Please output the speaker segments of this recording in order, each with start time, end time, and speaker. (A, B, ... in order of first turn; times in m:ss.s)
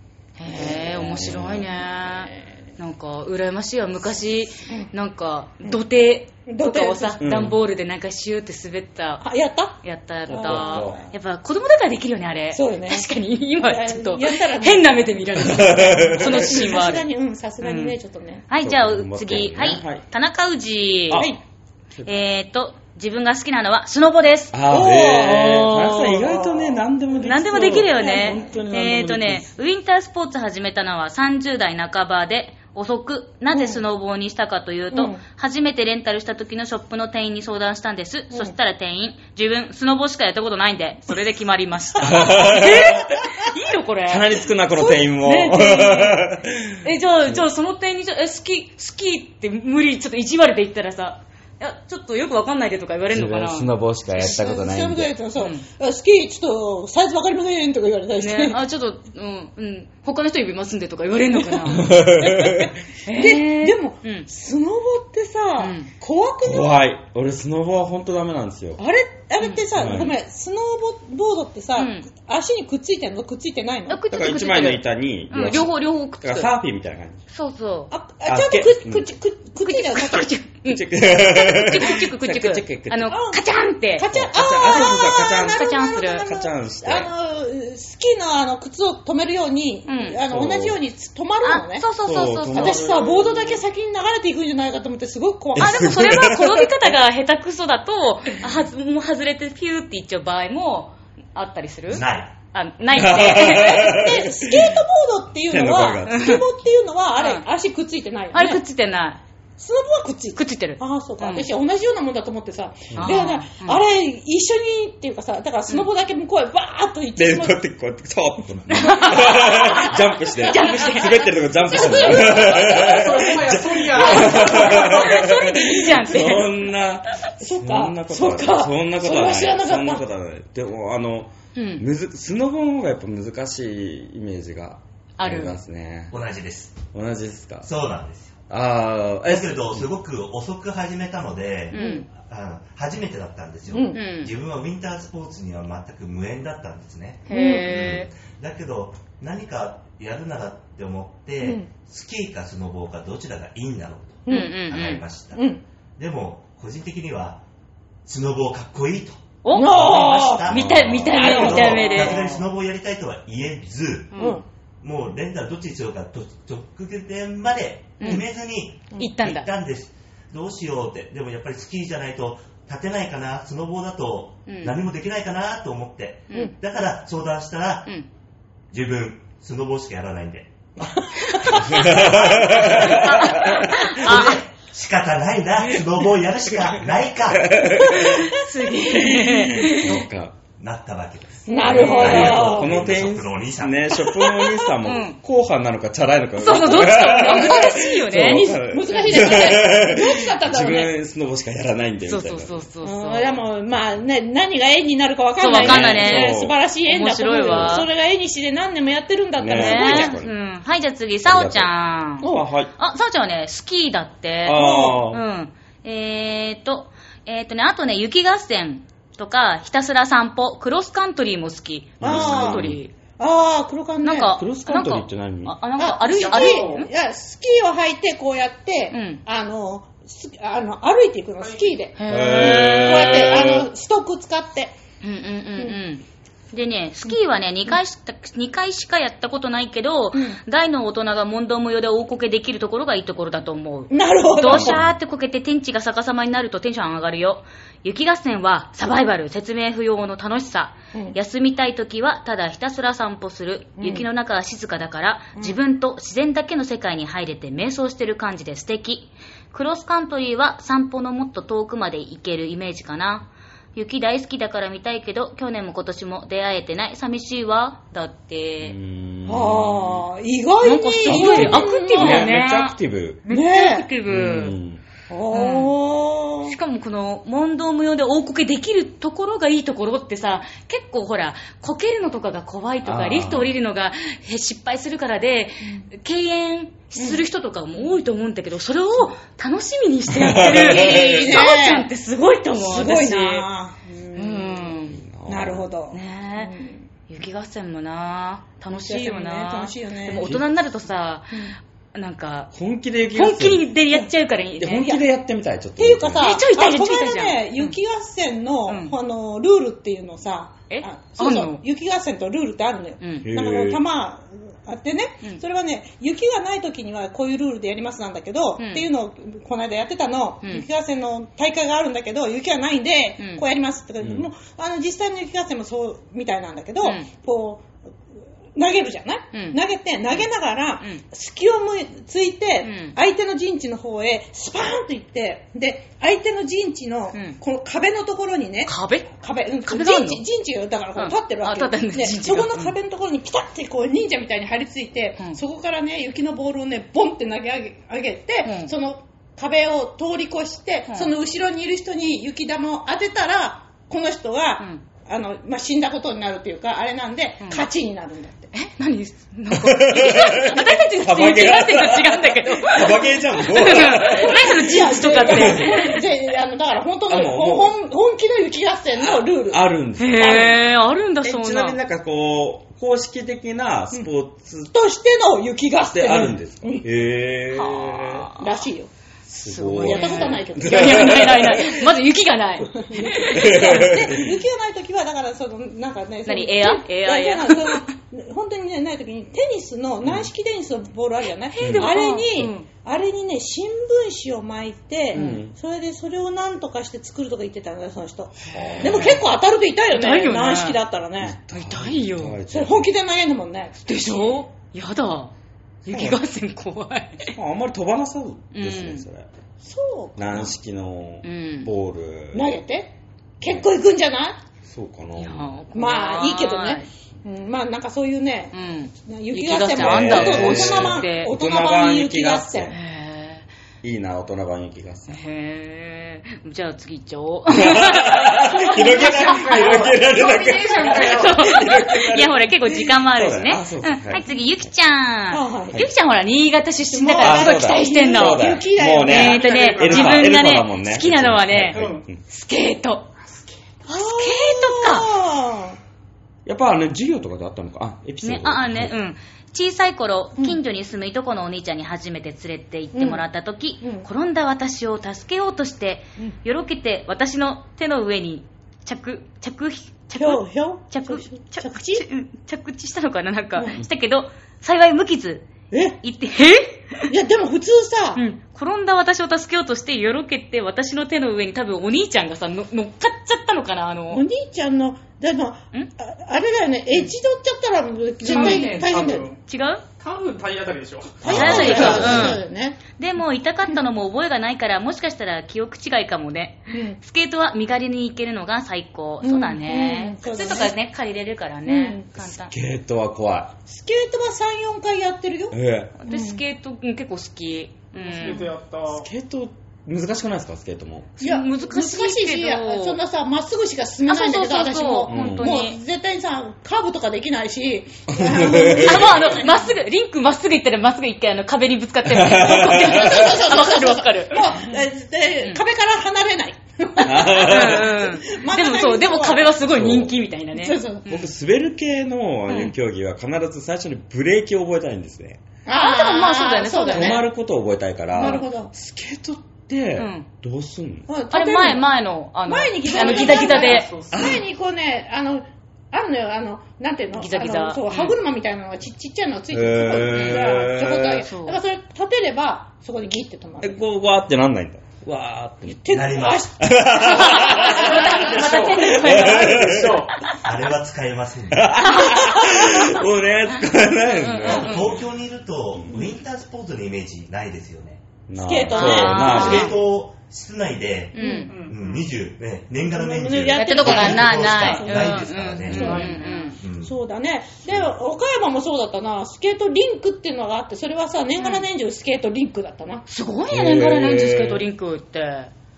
0:00.4-0:09.3 A
0:00.5-0:01.8 B
0:06.5-0:07.3 C
0:07.2-0:07.6 B
0:09.2-0:09.8 C
0:09.8-0:17.1 A
0:10.3-0:11.0 B
0:10.3-0:11.1 C
0:12.5-0:18.4 C
0:15.4-0:16.8 B
0:17.6-0:18.0 A
0:18.5-0:21.3 A
0:18.6-0:20.0 B
0:21.1-0:21.4 B
0:21.1-0:21.4 C
0:22.0-0:24.6 A
0:24.5-0:29.5 B
0:24.7-0:26.8 C
0:27.2-0:44.3 A
0:27.8-0:28.6 C
0:33.5-0:33.8 C
0:34.9-0:35.2 C
0:42.0-0:43.4 B
0:44.1-0:47.4 B
0:44.7-0:46.2 C
0:46.8-0:54.3 A
0:53.1-0:55.1 B
0:54.2-0:58.6 C
0:55.4-0:55.7 A
0:58.2-1:02.2 A
1:01.5-1:06.8 C
1:01.7-1:02.7 B
1:03.0-1:04.3 A
1:05.6-1:05.9 A
1:06.4-1:08.8 B
1:08.8-1:14.0 C
1:09.4-1:10.0 A
1:09.7-1:10.2 B
1:11.8-1:12.1 A
1:13.9-1:16.5 A
1:14.1-1:17.2 B
1:17.3-1:17.9 A
1:17.9-1:20.3 C
1:18.3-1:19.1 B
1:19.6-1:26.3 A
1:20.6-1:23.2 B
1:23.1-1:31.9 C
1:24.1-1:27.1 B
1:29.9-1:30.2 A
1:30.3-1:30.8 B
1:31.4-1:32.9 A
1:32.0-1:33.6 B
1:32.5-1:35.9 C
1:35.6-1:36.8 B
1:35.6-1:44.0 A
1:41.9-1:42.3 D
1:42.9-1:44.8 B
1:43.3-1:48.6 C
1:45.5-1:46.4 B
1:46.1-1:46.4 A
1:47.2-1:47.4 A
1:48.3-1:49.2 A
1:49.6-1:57.6 C
1:50.4-1:51.5 A
1:52.9-1:53.2 B
1:53.0-1:53.8 A
1:57.2-2:16.1 B
1:58.7-2:01.3 A
1:58.9-2:03.2 C
2:02.3-2:04.9 E
2:04.0-2:06.7 A
2:07.4-2:10.0 C
2:11.6-2:11.8 A
2:15.2-2:15.6 A
2:16.1-2:16.8 D
2:16.9-2:17.7 B
2:17.6-2:18.4 D
2:18.5-2:19.9 B
2:19.2-2:35.4 D
2:21.7-2:22.1 A
2:21.7-2:22.0 C
2:23.7-2:24.0 C
2:23.9-2:24.3 A
2:27.3-2:28.1 A
2:27.3-2:27.7 C
2:31.4-2:31.7 C
2:34.3-2:34.6 C
2:34.3-2:35.0 A
2:35.3-2:35.6 C
2:36.0-2:37.4 D
2:38.0-2:44.2 D
2:39.4-2:42.3 A
2:39.5-2:40.5 C
2:40.4-2:41.8 B
2:41.1-2:42.4 C
2:44.1-2:44.4 A
2:44.2-2:44.4 C
2:44.8-2:57.9 D
2:48.0-2:48.2 A
2:49.0-2:49.5 A
2:54.5-2:54.8 A
2:58.7-3:08.0 D
3:01.2-3:04.4 A
3:01.4-3:01.6 C
3:01.7-3:03.9 B
3:07.3-3:10.4 B
3:07.8-3:10.1 A
3:10.6-3:14.0 D
3:11.5-3:12.7 C
3:11.5-3:12.3 A
3:11.6-3:22.7 B
3:14.1-3:14.7 C
3:14.8-3:15.2 A
3:16.4-3:19.6 A
3:16.6-3:20.9 C
3:22.0-3:23.4 A
3:22.8-3:30.2 C
3:25.4-3:27.9 A
3:25.5-3:26.6 B
3:27.4-3:27.8 B
3:29.4-3:30.4 B
3:29.5-3:42.9 A
3:31.2-3:32.7 B
3:34.4-3:35.2 B
3:34.5-3:35.0 C
3:42.0-3:42.8 B
3:42.0-3:44.4 C
3:44.0-3:46.9 A
3:44.4-3:45.6 B
3:45.8-3:54.7 C
3:46.2-3:46.9 E
3:48.9-3:49.2 A
3:51.4-3:51.8 E
3:52.0-3:53.4 A
3:52.1-3:53.7 B
3:55.0-4:28.8 A
4:00.1-4:00.4 C
4:03.9-4:04.8 C
4:04.4-4:04.9 B
4:13.8-4:14.1 C
4:28.6-4:30.1 B
4:29.3-4:32.3 C
4:30.6-4:34.6 A
4:31.0-4:33.3 B
4:33.3-4:33.9 C
4:34.1-4:34.8 B
4:35.1-4:36.6 C
4:35.3-4:35.7 A
4:36.4-4:53.5 A
4:42.8-4:43.5 B
4:47.0-4:47.2 C
4:50.1-4:51.4 B
4:50.4-4:51.9 C
4:52.6-4:54.8 C
4:54.2-4:55.0 A
4:54.9-4:55.7 B
4:55.3-4:56.9 C
4:55.9-4:56.5 A
4:57.1-5:02.5 A
4:58.8-5:00.3 C
5:00.2-5:00.4 B
5:02.5-5:03.8 B
5:03.1-5:05.0 A
5:04.6-5:06.4 B
5:05.8-5:27.7 C
5:06.2-5:07.8 A
5:08.7-5:09.0 A
5:10.7-5:11.6 A
5:13.0-5:13.3 A
5:13.2-5:13.8 B
5:18.6-5:18.9 A
5:23.2-5:23.4 A
5:24.0-5:24.3 B
5:26.8-5:27.1 A
5:28.6-5:58.5 C
5:29.3-5:29.6 A
5:32.6-5:33.0 A
5:38.7-5:39.1 A
5:39.6-5:40.2 A
5:41.0-5:42.8 A
5:48.4-5:48.7 A
5:58.5-6:06.0 A
5:59.5-6:06.0 B
6:03.8-6:09.7 C
6:07.1-6:07.8 B
6:08.9-6:10.6 B
6:10.0-6:11.8 A
6:10.2-6:10.6 C
6:11.2-6:14.7 B
6:14.7-6:16.8 C
6:15.8-6:18.3 B
6:17.5-6:18.7 A
6:18.4-6:18.9 C
6:19.3-6:21.9 B
6:19.4-6:23.9 A
6:19.8-6:21.6 C
6:22.7-6:41.4 C
6:23.2-6:24.4 B
6:26.2-6:27.9 A
6:30.0-6:30.3 B
6:31.5-6:32.7 A
6:31.6-6:31.9 B
6:35.1-6:35.5 B
6:35.1-6:35.4 A
6:38.5-6:39.2 B
6:38.5-6:39.2 A
6:39.9-6:40.8 A
6:41.2-6:42.9 B
6:41.5-6:42.4 A
6:42.5-6:44.4 C
6:43.8-6:45.3 A
6:45.9-6:46.2 B
6:45.9-6:47.4 A
6:47.4-6:49.3 B
6:48.5-6:49.0 A
6:49.6-6:50.5 C
6:50.2-6:52.5 B
6:51.2-6:51.7 A
6:52.3-6:54.4 C
6:54.6-6:55.6 B
6:55.2-6:56.9 A
6:55.7-6:58.5 C
6:58.5-7:01.3 A
6:59.1-7:02.8 C
6:59.7-7:02.8 B
7:02.7-7:03.4 A
7:03.8-7:05.2 B
7:05.1-7:10.0 A
7:07.5-7:14.2 B
7:08.9-7:11.4 E
7:10.7-7:23.1 A
7:15.3-7:15.8 C
7:16.9-7:19.6 C
7:17.2-7:22.2 B
7:19.1-7:20.3 E
7:21.7-7:22.0 E
7:23.9-7:25.8 C
7:23.9-7:25.1 A
7:26.5-7:29.0 B
7:28.2-7:45.5 A
7:32.9-7:33.2 C
7:33.8-7:34.1 C
7:40.2-7:42.0 C
7:45.7-7:46.0 C
7:46.0-7:47.1 A
7:47.1-7:48.2 C
7:48.2-7:54.2 A
7:54.1-7:59.3 C
7:58.2-7:58.8 A
7:58.2-7:59.4 E
7:59.4-7:59.8 A
8:00.0-8:02.4 E
8:01.2-8:02.8 C
8:01.2-8:02.4 B
8:01.2-8:12.5 A
8:06.7-8:07.0 C
8:09.2-8:10.8 C
8:11.6-8:12.1 C
8:12.2-8:13.6 B
8:13.7-8:16.4 C
8:15.5-8:15.9 B
8:16.0-8:18.5 A
8:18.0-8:19.1 E
8:18.9-8:21.2 B
8:21.2-8:23.0 A
8:21.2-8:29.6 C
8:24.1-8:25.8 A
8:25.1-8:25.6 B
8:28.1-8:29.2 B
8:28.6-8:34.6 A
8:32.1-8:33.4 B
8:32.6-8:40.0 C
8:37.0-8:37.9 B
8:37.4-8:41.3 A
8:39.6-8:40.1 B
8:40.5-8:41.1 C
8:41.1-8:45.4 B
8:42.5-8:42.7 A
8:45.7-8:47.2 C
8:45.7-8:47.3 A
8:46.9-8:51.1 B
8:48.1-8:48.7 C
8:48.2-8:48.5 A
8:50.0-8:50.3 A
8:51.1-8:51.9 C
8:51.3-8:53.9 A
8:52.4-9:03.8 C
8:52.9-8:54.3 E
8:54.1-8:54.4 B
8:57.2-8:58.2 A
8:59.5-9:01.3 B
9:00.1-9:00.5 A
9:01.2-9:01.6 A
9:03.6-9:06.1 B
9:05.7-9:08.4 C
9:05.9-9:06.6 D
9:06.6-9:10.0 B
9:07.2-9:10.4 A
9:07.6-9:10.2 E
9:10.3-9:11.7 D
9:11.5-9:15.0 B
9:11.8-9:12.7 A
9:13.5-9:14.9 A
9:14.4-9:18.0 D
9:15.8-9:16.1 B
9:18.3-9:19.8 B
9:18.4-9:19.7 C
9:18.7-9:19.8 A
9:19.1-9:27.0 D
9:21.1-9:21.5 A
9:21.2-9:21.5 C
9:21.5-9:22.0 E
9:22.9-9:26.2 C
9:23.6-9:26.6 A
9:25.7-9:26.6 E
9:26.8-9:33.0 C
9:31.4-9:31.7 A
9:33.1-9:35.5 A
9:33.5-9:34.7 B